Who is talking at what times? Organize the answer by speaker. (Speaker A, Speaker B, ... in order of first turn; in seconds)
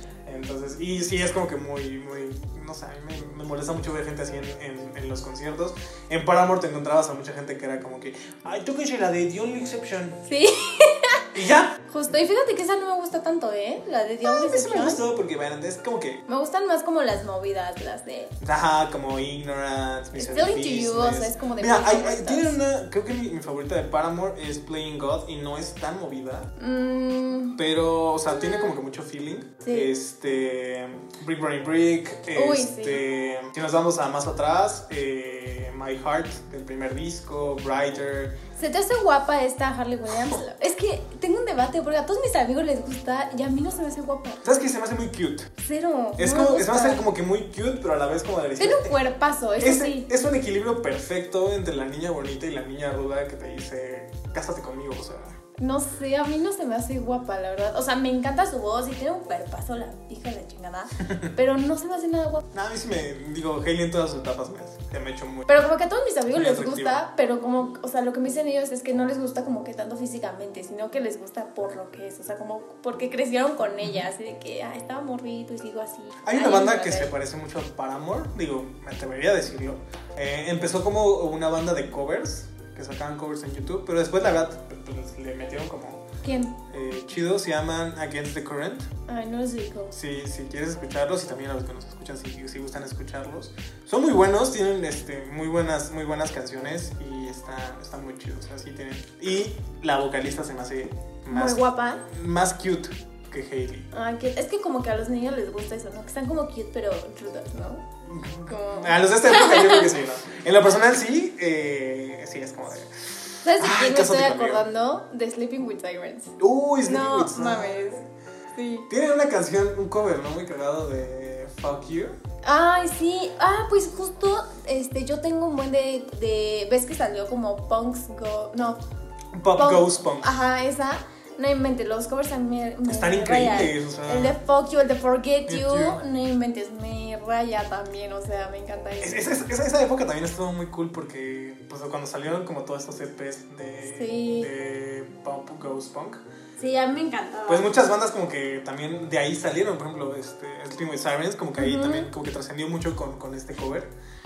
Speaker A: 0.2-10.2, 11.3-11.8, 14.2-16.2, 18.4-26.5, 27.6-38.4, 44.4-45.5, 46.2-49.0, 49.6-55.4, 62.5-65.5, 66.3-67.0, 76.2-86.0, 86.7-88.9, 89.9-103.9, 108.0-114.6, 116.4-118.0, 118.9-122.1, 129.3-130.4, 132.9-134.3, 135.5-136.0, 139.0-146.2, 147.5-153.9
Speaker B: 10.2-11.3, 11.9-15.0, 16.3-18.3, 20.1-22.6, 26.6-27.6, 28.3-28.7, 29.6-29.9, 32.3-33.0, 38.5-44.4, 45.6-47.0, 48.6-50.1, 55.6-62.4, 65.5-77.1, 86.2-86.5, 89.1-90.0, 101.3-102.0, 103.9-107.8, 108.5-109.9, 113.4-118.9, 122.4-128.8, 129.5-139.4, 143.9-144.5, 146.6-147.7, 151.6-152.1